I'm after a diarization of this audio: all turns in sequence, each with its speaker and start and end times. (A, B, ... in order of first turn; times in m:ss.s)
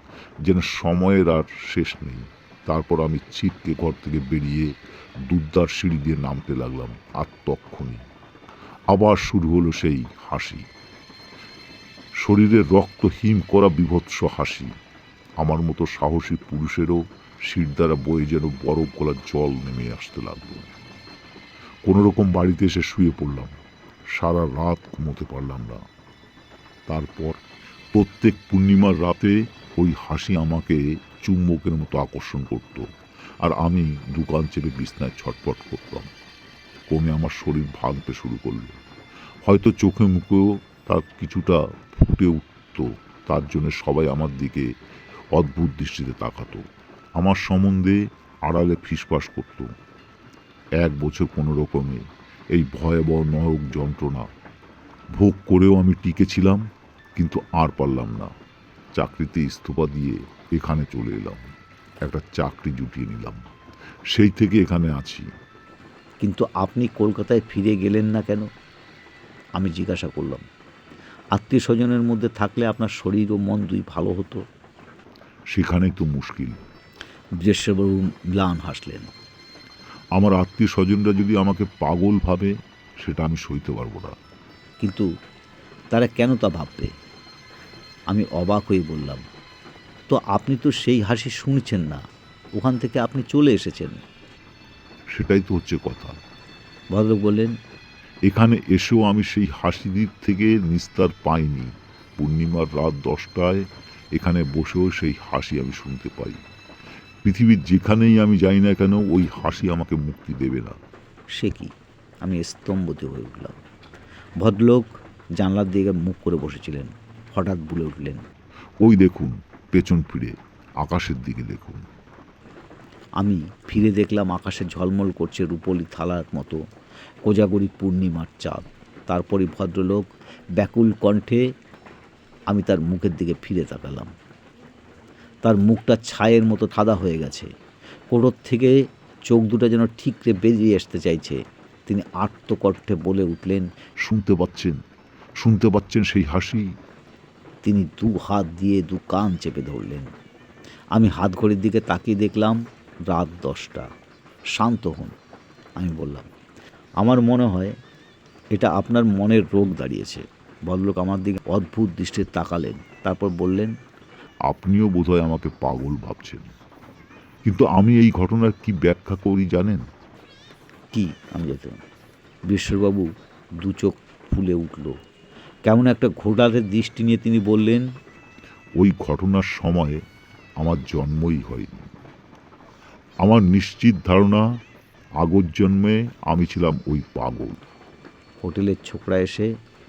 0:00.4-0:04.7 A
0:05.3-0:08.0 A
0:08.9-0:10.6 A
0:12.2-0:14.7 A
0:15.4-0:20.7 A
0:21.9-0:23.5 A
0:24.1-0:25.8 A
0:26.9-0:27.4 A
0:27.9-0:32.9 A
0:33.4-0:36.1 A
0:36.9-0:38.8 A
0:39.4-0:44.7 A
0:45.3-0:46.6 A
0:47.2-0:49.7 A
0:50.8-0:54.3 A
0:55.2-0:56.6 A
0:57.2-0:58.3 A
0:59.0-1:01.4 A
1:02.0-1:03.5 A
1:04.1-1:05.3 A
1:06.2-1:08.5 B
1:09.6-1:10.4 B
1:11.4-1:14.4 B
1:15.5-1:16.6 A
1:17.4-1:19.1 B
1:20.2-1:24.2 A
1:24.8-1:25.1 B
1:25.9-1:26.9 B
1:28.1-1:29.2 B
1:30.1-1:32.0 B
1:32.6-1:34.0 B
1:35.1-1:36.2 A
1:36.9-1:37.5 B
1:38.3-1:43.6 A
1:44.2-1:46.4 A
1:47.2-1:50.8 A
1:51.4-1:53.6 B
1:54.4-1:58.2 B
1:58.8-2:01.8 A
2:03.2-2:06.6 B
2:07.2-2:10.1 B
2:10.6-2:11.4 B
2:12.5-2:14.1 B
2:15.4-2:17.5 B
2:18.1-2:18.8 B
2:19.3-2:23.7 B
2:24.0-2:24.8 A
2:25.4-2:26.7 A
2:27.6-2:30.1 B
2:30.9-2:32.6 B
2:33.1-2:33.9 B
2:34.6-2:35.1 B
2:35.8-2:36.3 B
2:37.0-2:37.7 B
2:38.5-2:43.7 B
2:44.5-2:46.5 A
2:47.4-2:49.8 A
2:50.9-2:51.8 B
2:52.5-2:53.1 B
2:53.6-2:54.9 B
2:55.7-2:57.8 B
2:58.8-3:00.0 A
3:00.6-3:01.9 A
3:03.2-3:04.4 A
3:05.2-3:07.6 A
3:08.4-3:09.5 B